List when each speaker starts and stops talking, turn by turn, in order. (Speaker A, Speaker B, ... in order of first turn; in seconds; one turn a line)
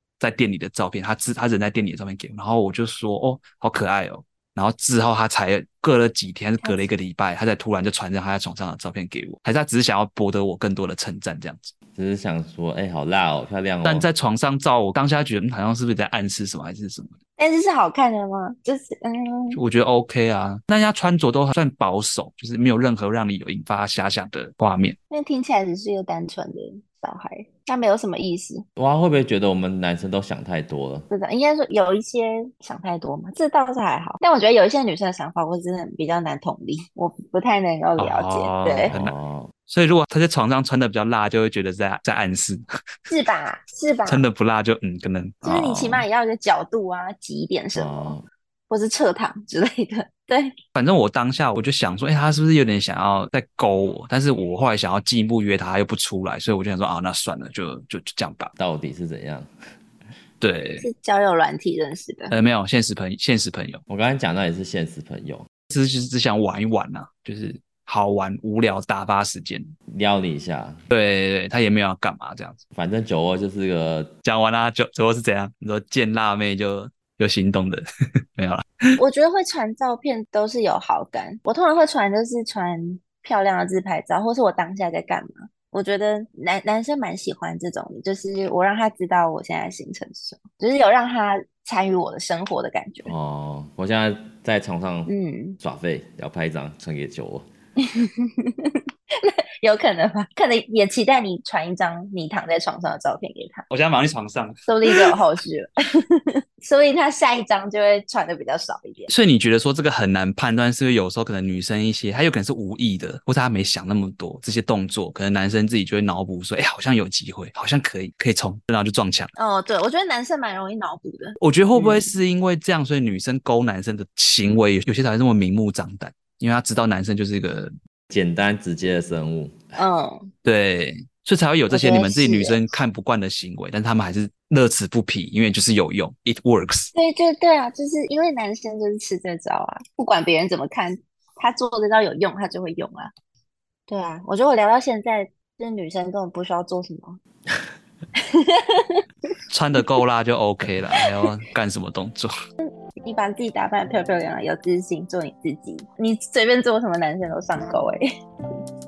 Speaker A: 0.2-11.7
Speaker B: 6.6-6.9
Speaker C: 11.9-14.1
Speaker A: 13.8-17.1
Speaker B: 17.4-19.6
Speaker A: 19.5-25.0
Speaker B: 25.1-28.6
Speaker C: 28.8-31.1
Speaker B: 31.1-39.0
Speaker A: 38.0-39.1
Speaker C: 38.9-39.5
Speaker A: 39.7-42.6
Speaker B: 43.1-44.2
Speaker A: 44.1-46.0
Speaker B: 45.4-48.2
Speaker C: 47.8-48.2
Speaker B: 48.7-50.5
Speaker A: 50.8-58.5
Speaker C: 58.6-59.5
Speaker A: 60.4-60.9
Speaker B: 60.8-62.3
Speaker A: 62.3-63.8
Speaker C: 63.9-65.5
Speaker A: 65.7-69.7
Speaker C: 69.9-70.8
Speaker A: 70.9-72.6
Speaker C: 72.8-74.1
Speaker A: 74.2-77.8
Speaker A: 78.4-78.7
Speaker B: 79.0-93.1
Speaker C: 93.1-95.1
Speaker B: 95.1-95.6
Speaker C: 95.6-97.5
Speaker B: 97.8-103.7
Speaker A: 103.7-105.2
Speaker B: 104.7-109.1
Speaker A: 109.1-119.3
Speaker B: 119.4-122.2
Speaker A: 121.4-127.8
Speaker C: 128.1-129.8
Speaker B: 129.8-130.3
Speaker A: 130.4-136.9
Speaker B: 131.7-132.8
Speaker B: 136.9-143.1
Speaker B: 143.9-147.2
Speaker B: 148.2-149.0
Speaker A: 149.5-152.3
Speaker B: 152.6-158.1